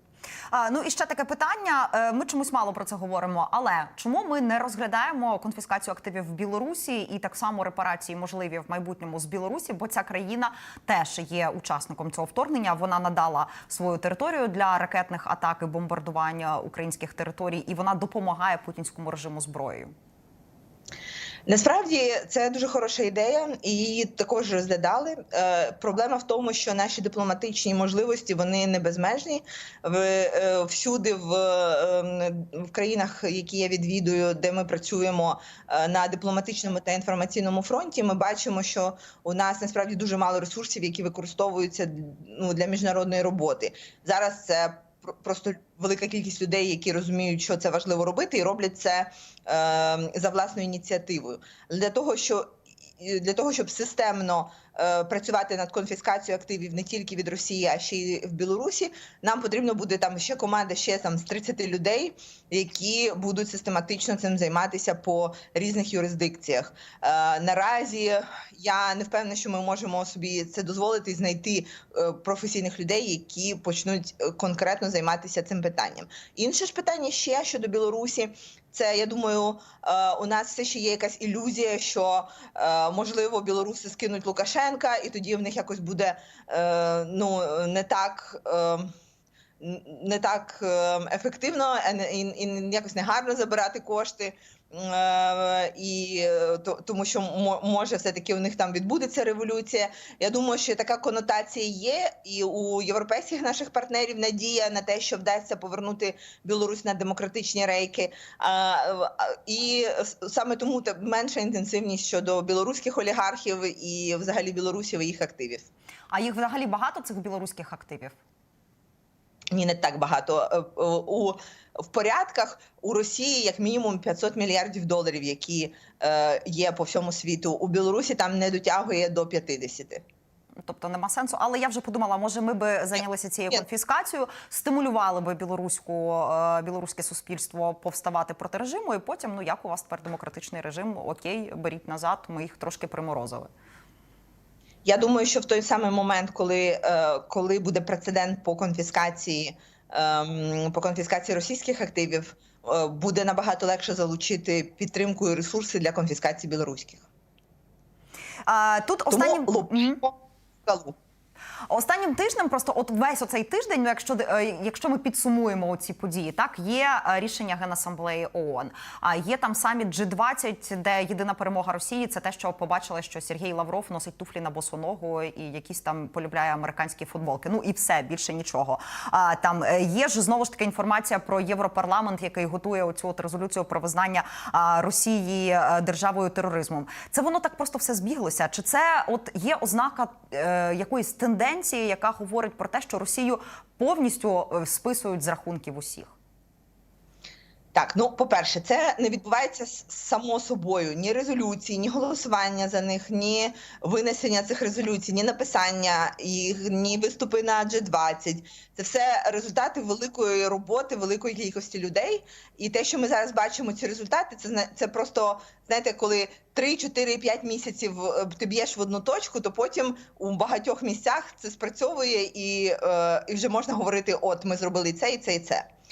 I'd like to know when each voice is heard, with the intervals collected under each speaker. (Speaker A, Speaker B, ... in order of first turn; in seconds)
Speaker A: 0.5-19.9, 116.1-118.2, 130.6-143.5, 158.5-160.0, 161.7-196.1
Speaker B: 21.5-88.9, 89.6-115.7, 119.5-130.0, 144.8-157.1, 159.1-160.9, 197.7-225.7